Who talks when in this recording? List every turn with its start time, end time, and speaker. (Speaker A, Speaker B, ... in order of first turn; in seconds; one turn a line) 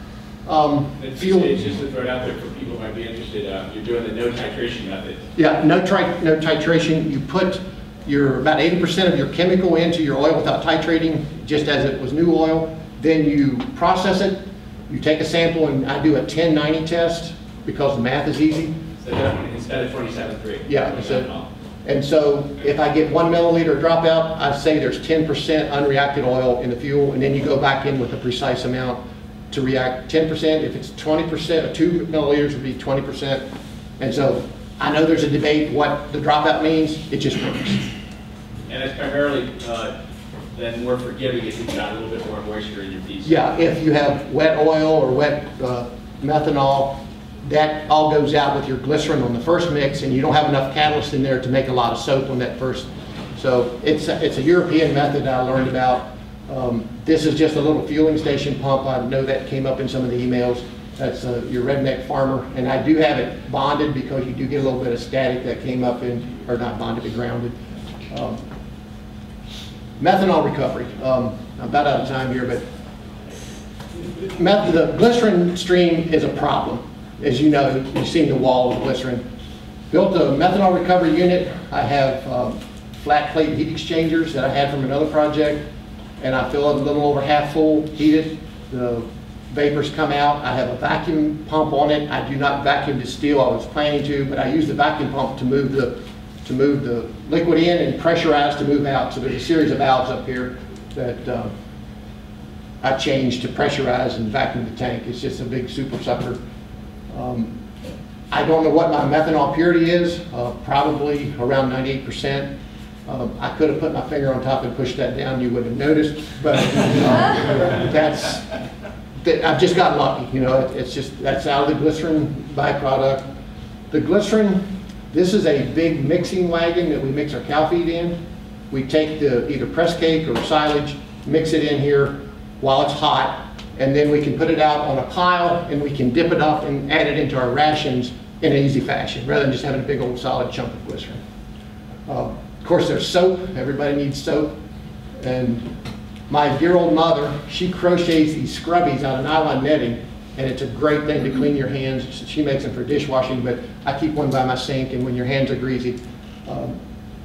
Speaker A: 0.5-1.6
Speaker B: 1.0-5.2
Speaker A: 5.3-18.8
Speaker B: 19.0-21.4
Speaker A: 20.7-21.3
Speaker A: 21.8-33.4
Speaker A: 34.0-37.8
Speaker B: 38.7-39.9
Speaker B: 40.5-43.4
Speaker A: 43.2-67.5
Speaker A: 68.1-68.4
Speaker A: 70.0-72.6
Speaker A: 74.2-79.2
Speaker A: 79.9-85.6
Speaker A: 86.2-101.5
Speaker A: 102.8-106.4
Speaker A: 107.1-107.5
Speaker A: 108.3-112.5
Speaker A: 113.0-118.5
Speaker A: 119.2-123.3
Speaker A: 123.9-128.2
Speaker A: 128.7-141.2
Speaker A: 142.1-144.5
Speaker A: 145.2-145.7
Speaker A: 146.3-156.8